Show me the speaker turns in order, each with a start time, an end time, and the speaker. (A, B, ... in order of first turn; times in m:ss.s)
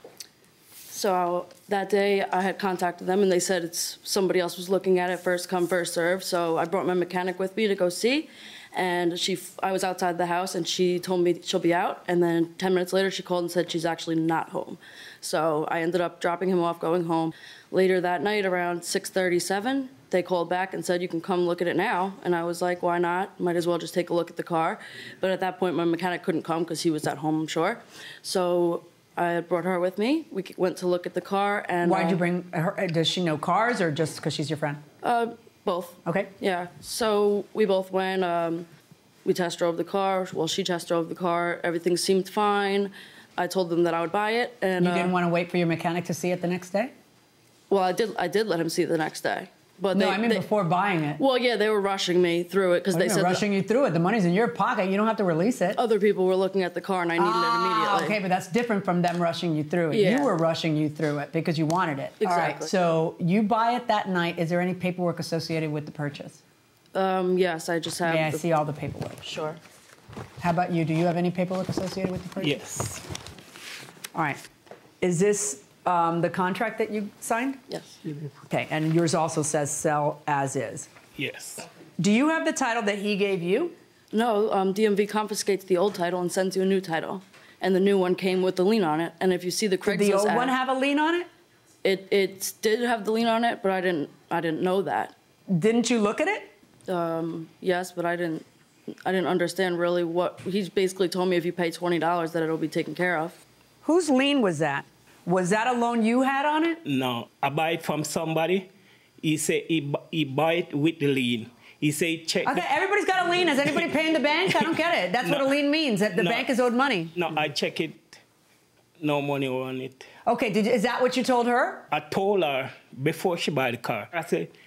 0:00.9-0:32.2 A
0:31.8-0:34.8 B
0:35.0-0:38.7 A
0:36.0-0:36.3 B
0:39.2-0:45.1 A
0:44.8-0:46.9 B
0:47.7-0:50.4 A
0:49.9-0:51.2 B
0:51.2-0:53.4 A
0:52.9-0:55.8 B
0:55.7-0:58.2 A
0:57.2-1:06.4 B
0:59.9-1:00.4 A
1:02.2-1:02.7 A
1:06.9-1:08.5 A
1:08.0-1:09.2 B
1:09.2-1:09.6 A
1:10.4-1:12.6 B
1:12.4-1:13.0 C
1:14.1-1:14.4 B
1:15.0-1:17.6 B
1:17.7-1:18.0 A
1:18.5-1:20.9 B
1:21.2-1:21.7 C
1:22.0-1:23.7 B
1:24.1-1:30.6 A
1:29.9-1:31.3 B
1:31.8-1:35.1 A
1:35.5-1:36.5 B
1:36.9-1:38.4 A
1:39.0-1:43.4 A
1:43.8-1:46.8 B
1:46.8-1:48.7 C
1:49.2-1:52.6 C
1:52.4-1:57.1 B
1:55.2-1:55.5 C
1:56.1-1:56.5 C
1:57.1-1:58.2 C
1:59.0-2:00.0 C
2:00.2-2:01.8 B
2:01.9-2:04.5 C